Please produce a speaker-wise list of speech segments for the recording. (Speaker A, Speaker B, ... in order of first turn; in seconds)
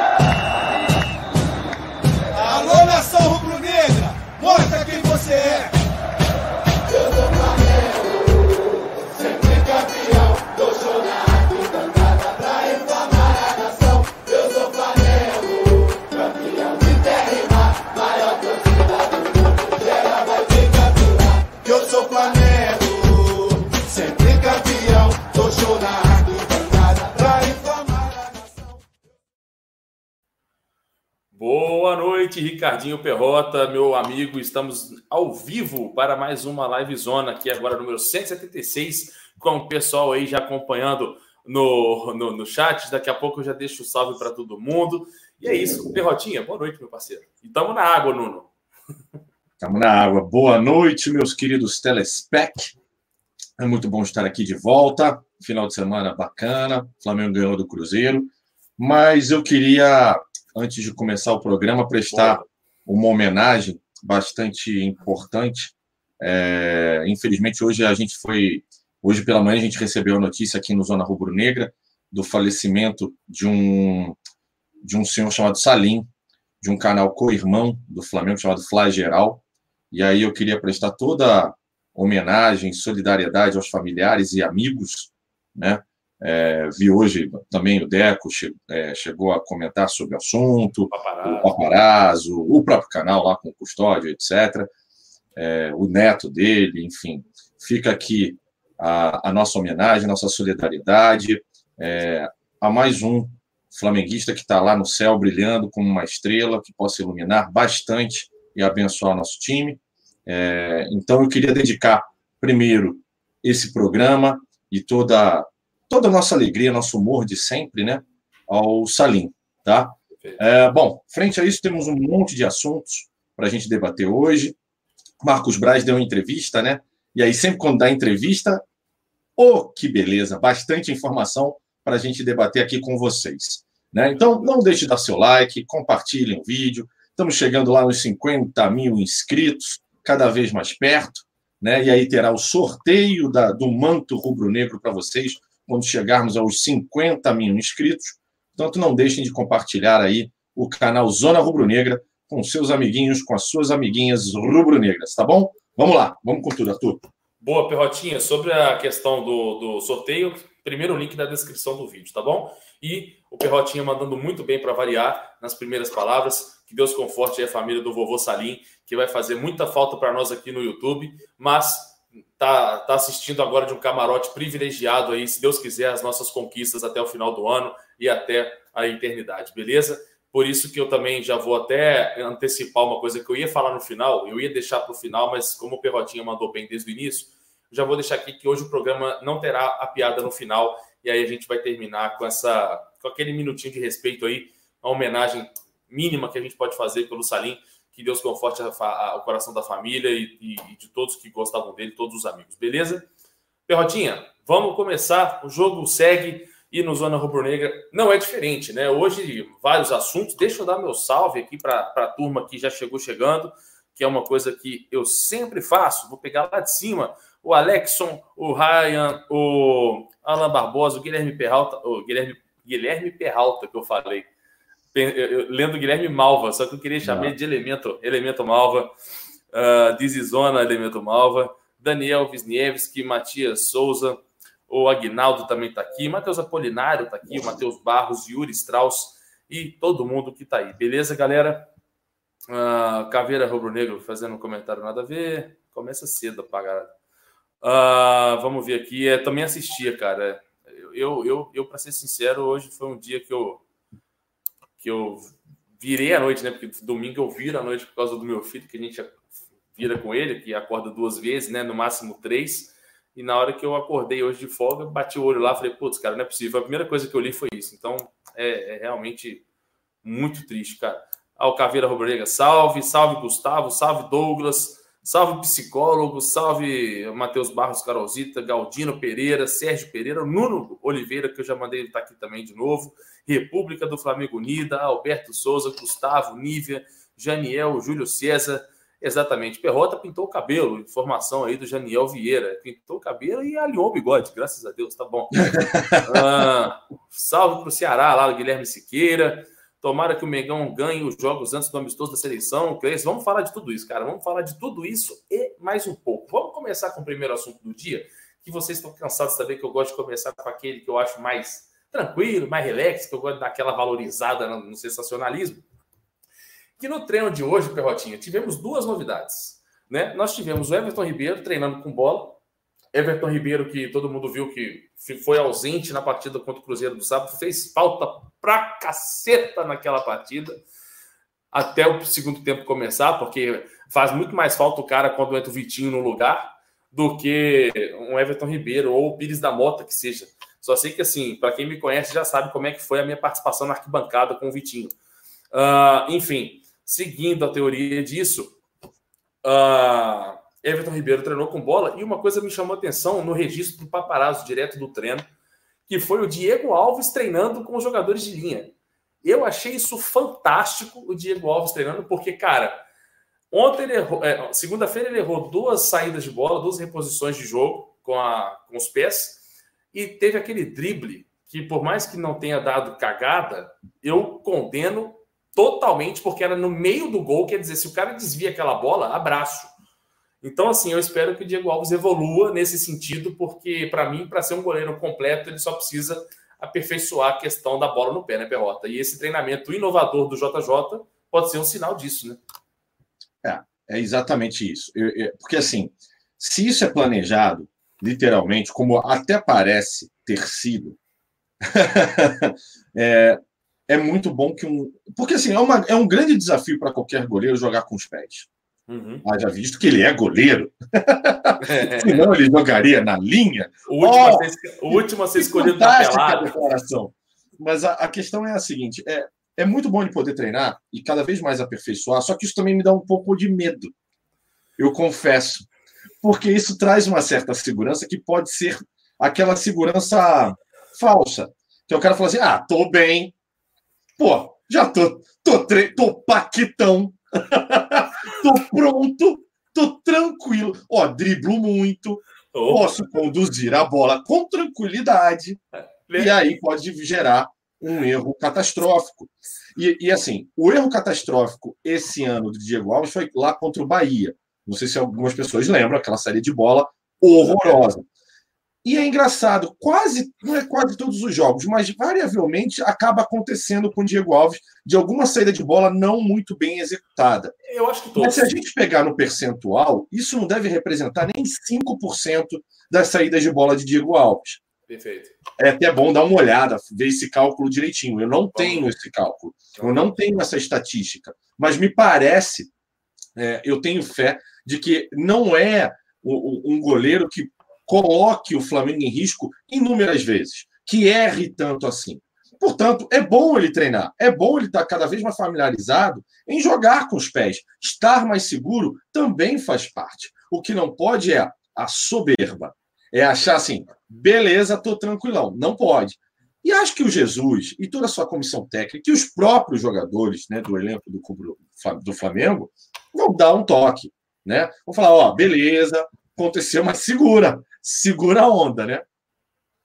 Speaker A: 2.3-5.7, 6.9-28.6
Speaker B: 31.3-48.5, 62.1-62.5, 90.9-91.5, 157.4-203.0, 203.7-224.3, 224.9-228.9, 229.5-241.7, 242.5-246.9, 247.6-253.6, 254.8-259.2, 259.7-269.4, 270.0-315.6, 316.8-322.4, 322.9-330.5, 331.5-344.9, 345.5-348.5, 349.4-355.2, 355.9-362.8, 363.5-369.4, 369.9-379.7, 380.4-392.4, 408.9-409.2, 411.6-412.3, 413.9-416.5, 442.5-443.0, 445.7-446.3, 457.3-457.8, 467.6-468.6, 474.9-475.3, 478.5-478.9, 479.7-480.1
Speaker C: 45.4-46.0, 49.6-52.7, 53.6-74.2, 74.8-76.1, 76.6-94.7, 95.4-124.5, 125.2-128.6, 129.4-157.0, 227.0-227.3, 295.4-296.2, 393.4-401.0, 401.6-408.5, 409.2-423.9, 424.8-425.6, 426.2-433.3, 434.2-445.6, 446.1-458.1, 458.8-467.5, 468.1-474.6, 475.6-482.7, 483.4-519.0